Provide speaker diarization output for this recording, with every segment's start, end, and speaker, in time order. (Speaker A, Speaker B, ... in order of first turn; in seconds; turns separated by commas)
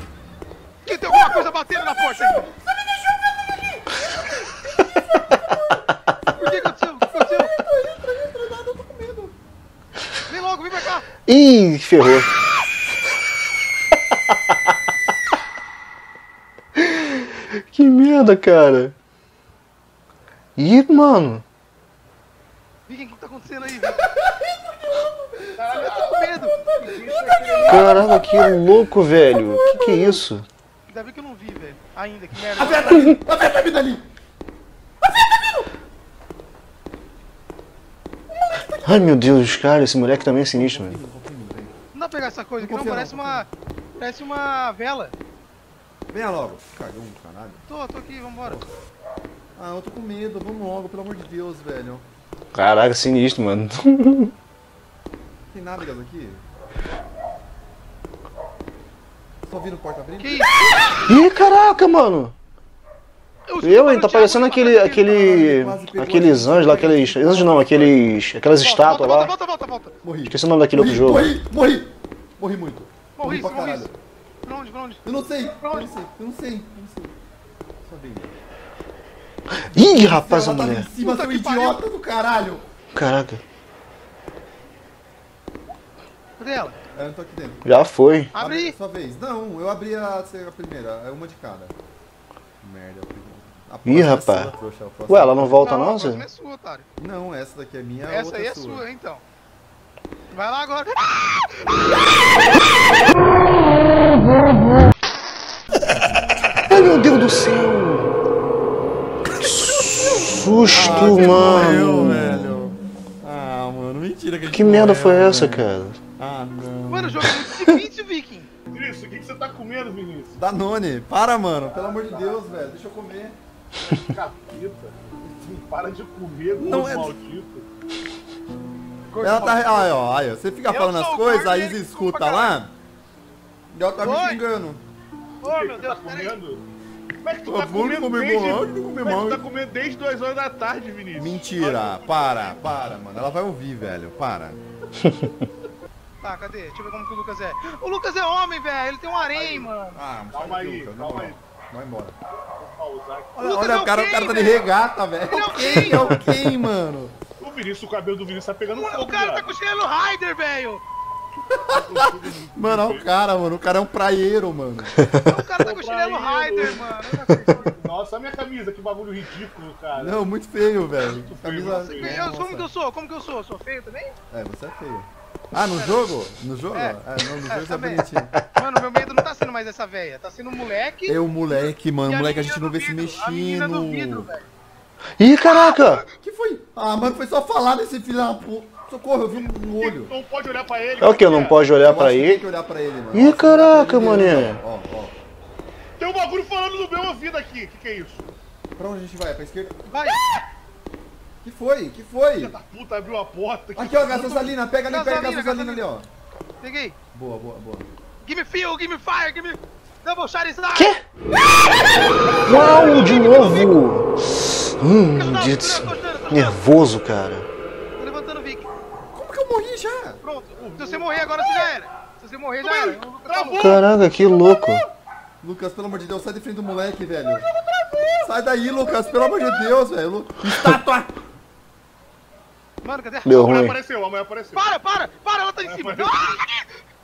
Speaker A: 0.8-2.5, Speaker B: 0.9-9.3, Speaker A: 6.3-7.5, Speaker A: 10.3-11.1, Speaker C: 11.3-12.3, Speaker C: 16.8-18.9, Speaker C: 20.6-21.4, Speaker A: 22.9-24.1, Speaker B: 23.9-30.2, Speaker D: 25.6-28.2, Speaker A: 25.7-26.6, Speaker C: 27.6-30.4, Speaker A: 30.9-33.1, Speaker B: 32.5-34.0, Speaker C: 32.9-33.2, Speaker B: 35.1-35.6, Speaker B: 38.4-41.8, Speaker C: 38.8-41.0, Speaker A: 41.9-45.1, Speaker B: 42.6-43.5, Speaker B: 46.1-47.6, Speaker A: 47.7-48.6, Speaker B: 48.4-48.7, Speaker B: 49.5-52.0, Speaker C: 52.5-54.3, Speaker B: 55.5-56.4, Speaker B: 59.5-61.0, Speaker A: 60.2-60.9, Speaker C: 61.0-62.3, Speaker A: 63.5-65.3, Speaker C: 63.6-69.3, Speaker B: 65.0-68.0, Speaker A: 68.6-69.9, Speaker B: 70.0-73.9, Speaker C: 70.2-71.3, Speaker A: 73.2-73.9, Speaker A: 74.4-75.9, Speaker B: 75.0-77.2, Speaker B: 77.8-78.3, Speaker C: 79.7-80.9, Speaker B: 79.7-82.6, Speaker A: 81.0-81.8, Speaker C: 82.9-83.4, Speaker A: 86.4-86.8, Speaker B: 86.9-87.7, Speaker C: 87.6-88.3, Speaker A: 88.3-88.7, Speaker B: 88.3-91.7, Speaker B: 92.6-95.9, Speaker C: 93.8-94.5, Speaker C: 95.1-96.2, Speaker A: 95.6-96.8, Speaker B: 97.0-98.8, Speaker A: 98.1-99.2, Speaker A: 100.3-101.4, Speaker C: 106.7-108.1, Speaker C: 109.4-112.6, Speaker B: 110.7-117.3, Speaker A: 110.7-111.7, Speaker C: 114.5-116.0, Speaker A: 116.9-118.5, Speaker D: 118.7-120.4, Speaker B: 120.3-123.4, Speaker D: 121.7-122.5, Speaker D: 123.8-127.7, Speaker B: 126.5-127.2, Speaker A: 129.1-129.9, Speaker B: 129.2-132.7, Speaker A: 130.7-132.5, Speaker B: 133.7-134.8, Speaker A: 134.0-134.4, Speaker A: 135.4-136.4, Speaker D: 135.4-136.6, Speaker D: 137.2-142.6, Speaker B: 137.4-139.4, Speaker B: 141.1-144.6, Speaker A: 146.2-150.0, Speaker D: 149.3-149.7, Speaker B: 149.9-152.2, Speaker D: 150.3-151.4, Speaker D: 152.6-153.4, Speaker B: 153.3-157.2, Speaker A: 153.4-154.7, Speaker A: 155.2-156.2, Speaker D: 157.4-159.6, Speaker A: 158.7-160.8, Speaker D: 161.6-163.1, Speaker B: 161.9-165.0, Speaker A: 165.2-167.7, Speaker D: 165.6-170.2, Speaker B: 169.9-172.7, Speaker D: 171.0-172.2, Speaker A: 171.7-174.2, Speaker B: 174.3-178.3, Speaker A: 175.7-176.1, Speaker A: 176.7-184.5, Speaker B: 181.1-184.3, Speaker C: 185.2-186.0, Speaker A: 185.5-186.0, Speaker B: 186.2-190.1, Speaker D: 189.3-191.6, Speaker C: 191.0-192.4, Speaker B: 191.8-195.1, Speaker C: 193.1-194.6, Speaker D: 196.0-198.3, Speaker B: 198.8-199.8, Speaker A: 199.9-200.2, Speaker B: 201.4-202.5, Speaker D: 202.3-204.5, Speaker B: 203.7-206.1, Speaker A: 204.9-205.8, Speaker A: 206.6-206.9, Speaker B: 207.1-207.9, Speaker A: 208.2-210.9, Speaker C: 210.7-211.0, Speaker A: 211.8-213.8, Speaker C: 212.4-217.5, Speaker A: 215.1-216.6, Speaker A: 218.0-218.7, Speaker B: 219.1-220.2, Speaker A: 220.2-223.8, Speaker D: 220.6-221.2, Speaker D: 222.6-224.7, Speaker C: 223.5-224.8, Speaker B: 225.4-227.4, Speaker D: 227.4-228.2, Speaker B: 228.2-231.1, Speaker A: 232.8-233.6, Speaker C: 233.2-233.8, Speaker D: 233.3-234.7, Speaker A: 234.5-236.7, Speaker D: 235.6-236.3